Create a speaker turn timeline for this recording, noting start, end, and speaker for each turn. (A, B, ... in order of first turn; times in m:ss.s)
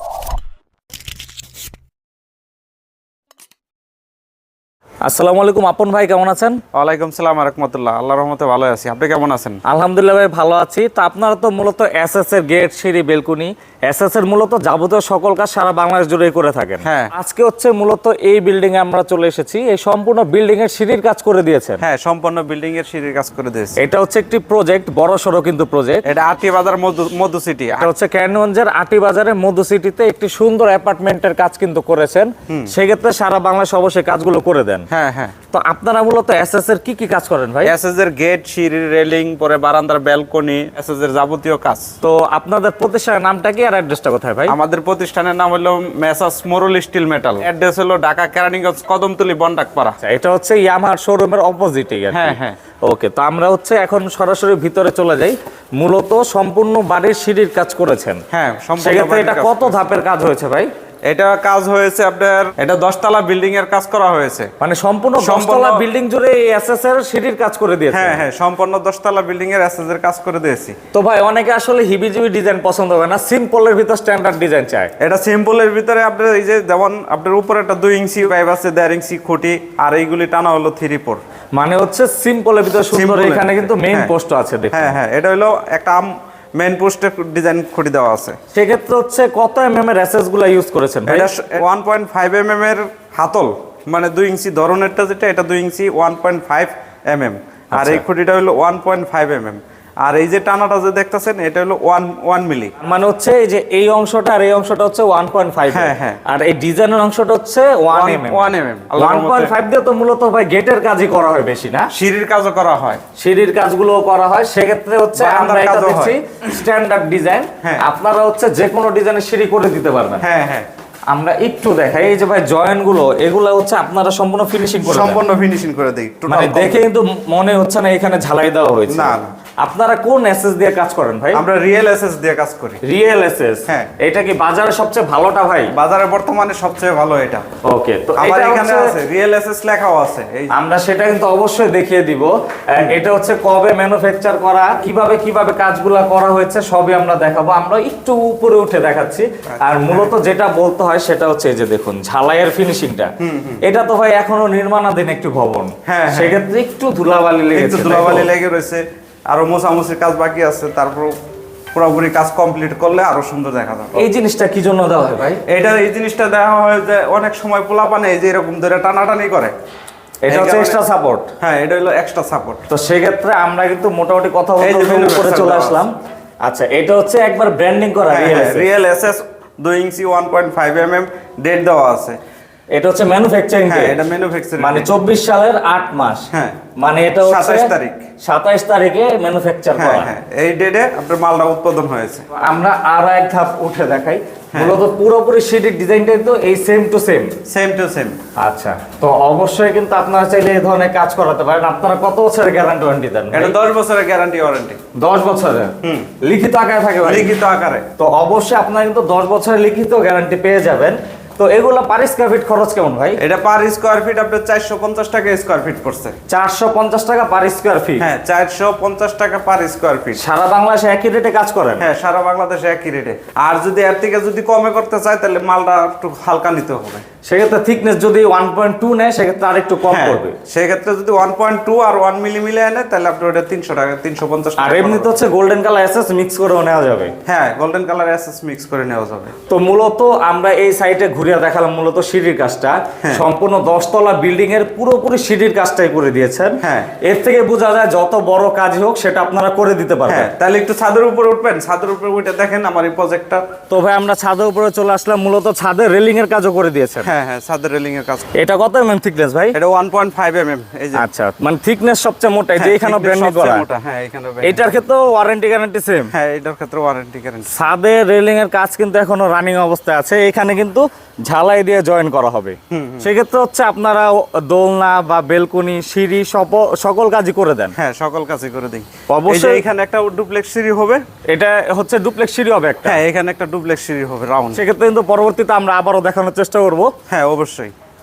0:05.0-0:06.6 A
0:06.7-0:09.6 B
0:09.7-0:21.8 A
0:16.8-0:17.1 B
0:21.8-0:23.8 B
0:23.8-0:26.0 A
0:26.0-0:27.9 B
0:27.8-0:34.9 A
0:34.9-0:35.3 B
0:35.5-0:37.7 A
0:37.6-0:41.9 B
0:42.0-0:44.6 A
0:44.5-0:50.0 B
0:50.0-0:58.2 A
0:52.1-0:52.6 B
0:58.3-0:59.8 B
0:58.8-1:00.7 A
1:01.1-1:04.5 B
1:04.6-1:08.2 A
1:05.2-1:05.8 B
1:07.9-1:10.8 B
1:10.9-1:14.9 A
1:15.0-1:21.2 B
1:21.5-1:24.9 A
1:22.9-1:24.1 B
1:24.7-1:28.4 B
1:28.5-1:31.3 A
1:31.1-1:42.7 B
1:37.7-1:38.0 A
1:42.8-1:51.9 A
1:45.7-1:46.2 B
1:47.9-1:49.5 B
1:51.9-1:53.0 B
1:53.2-2:00.2 A
1:55.1-1:56.2 B
2:00.2-2:00.6 B
2:01.1-2:05.2 A
2:04.8-2:06.8 B
2:06.3-2:11.4 A
2:08.9-2:09.3 B
2:11.3-2:12.8 B
2:12.8-2:15.7 A
2:15.7-2:17.4 B
2:17.6-2:18.9 A
2:18.2-2:20.5 B
2:20.5-2:33.1 A
2:29.5-2:30.1 B
2:33.2-2:33.6 B
2:33.6-2:38.3 A
2:35.9-2:36.4 B
2:37.5-2:41.1 B
2:41.7-2:44.0 B
2:43.9-2:45.4 A
2:45.5-2:49.5 B
2:50.2-2:51.3 A
2:50.3-2:50.8 B
2:51.4-2:52.6 B
2:52.7-2:55.9 A
2:54.6-2:55.8 B
2:56.4-2:58.7 A
2:58.1-3:02.2 B
3:02.7-3:04.0 A
3:03.7-3:04.9 B
3:04.6-3:10.1 A
3:06.3-3:06.6 B
3:07.2-3:08.1 B
3:09.8-3:12.3 B
3:12.3-3:17.4 A
3:14.5-3:14.8 B
3:17.5-3:18.2 B
3:18.4-3:23.5 A
3:23.3-3:24.8 B
3:24.9-3:27.4 A
3:25.8-3:26.1 B
3:27.0-3:27.9 B
3:28.0-3:33.2 A
3:33.2-3:36.2 B
3:36.3-3:38.0 A
3:38.0-3:40.2 B
3:40.2-3:41.9 A
3:41.8-3:47.0 B
3:47.2-3:50.4 A
3:49.9-3:55.2 B
3:54.6-3:57.1 A
3:57.2-3:59.3 B
3:59.5-4:10.3 A
4:06.6-4:06.9 B
4:10.1-4:13.4 B
4:13.7-4:17.1 A
4:17.0-4:18.3 B
4:18.3-4:19.6 A
4:19.5-4:21.0 B
4:20.9-4:23.6 A
4:22.6-4:24.7 B
4:24.4-4:26.1 A
4:26.1-4:27.6 B
4:27.5-4:37.8 A
4:32.7-4:33.1 B
4:37.8-4:41.0 B
4:39.1-4:39.6 A
4:41.3-4:43.0 A
4:42.8-4:44.6 B
4:44.5-4:46.9 A
4:47.1-4:47.7 B